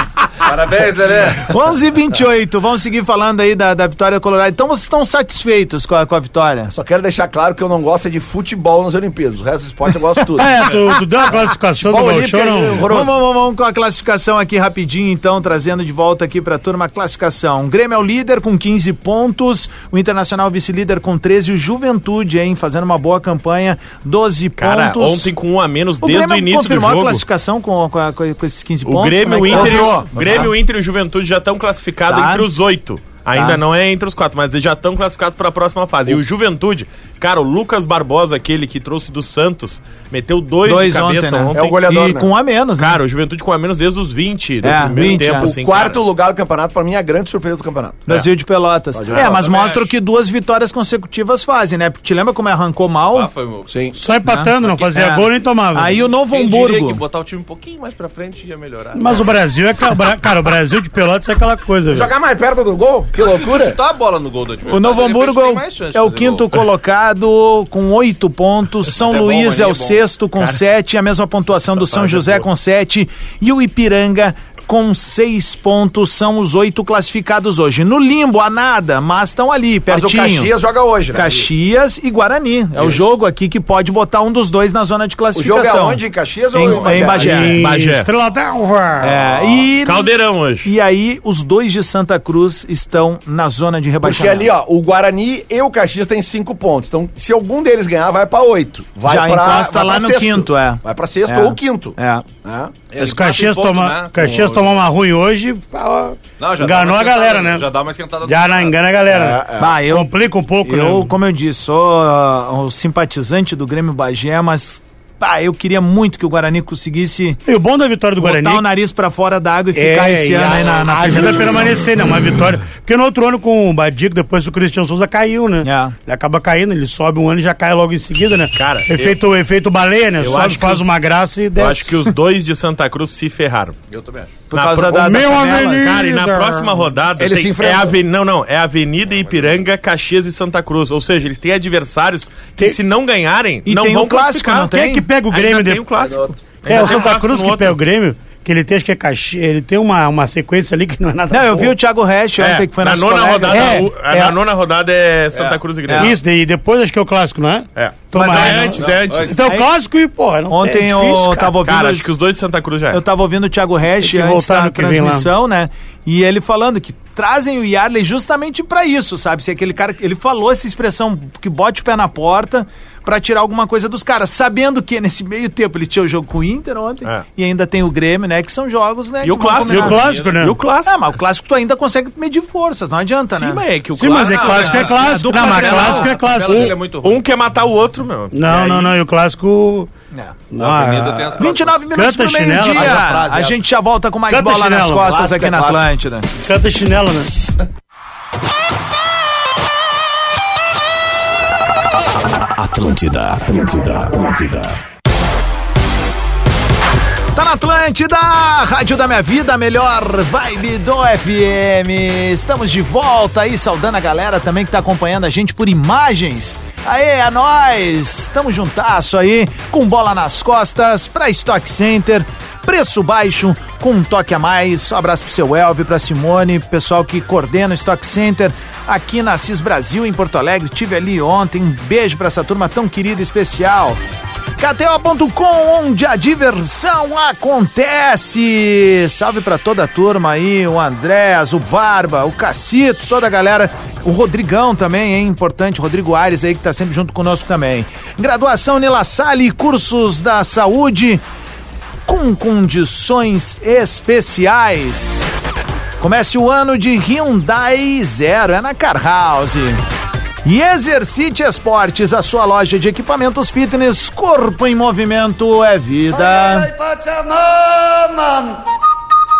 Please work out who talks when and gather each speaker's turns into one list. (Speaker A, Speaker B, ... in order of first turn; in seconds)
Speaker A: 0.4-1.5, 49.1-49.9, 53.1-53.9, 56.1-59.3, 63.1-66.5, 69.0-70.0, 102.9-104.8, 106.4-108.8, 133.9-134.3, 139.1-139.6, 155.3-155.6, 158.5-159.4, 179.9-180.3, 184.0-187.2, 190.6-191.8
Speaker B: 1.4-6.7, 12.9-25.3, 26.0-30.5, 32.1-32.5, 33.3-33.6, 40.6-43.0, 44.6-45.5, 48.1-53.3, 54.2-57.0, 64.7-80.5, 81.1-87.6, 89.0-94.5, 99.0-102.3, 109.6-117.4, 118.2-121.9, 125.6-126.0, 134.5-136.0, 143.6-145.1, 151.3-153.9, 155.9-156.2, 158.2-158.6, 159.4-159.7, 160.5-162.1, 162.9-180.0, 180.8-183.6, 184.4-186.1, 191.4-196.3, 207.3-234.0, 234.6-251.2, 252.1-255.2, 256.0-259.8, 260.4-266.7
Speaker C: 6.7-10.7, 11.8-13.1, 29.5-30.5, 41.5-42.3, 45.0-48.2, 48.9-49.5, 53.7-54.0, 61.9-63.8, 79.9-81.5, 85.3-87.6, 89.1-89.7, 94.0-102.7, 109.1-109.8, 137.2-138.0, 145.9-146.4, 192.6-193.6, 195.0-195.9
Speaker D: 10.3-12.8, 53.9-56.0, 58.9-62.1, 87.0-89.2, 103.0-107.6, 108.2-111.1, 117.5-118.6, 119.7-132.1, 134.9-136.8, 144.7-145.8, 146.6-151.7, 153.5-154.3, 155.9-161.4, 164.0-165.3, 179.6-180.6, 183.9-186.7, 188.3-189.9, 190.5-193.0, 194.3-195.1, 196.4-197.3
Speaker E: 24.6-27.2, 28.9-41.8, 42.8-46.0, 87.5-88.1, 89.8-90.7, 128.5-129.2, 130.2-130.8, 131.6-133.7, 134.5-147.8, 152.4-156.1, 157.8-159.4, 161.6-163.0, 179.2-181.0, 183.3-184.9, 186.4-188.9
Speaker F: 202.1-204.8, 266.1-268.6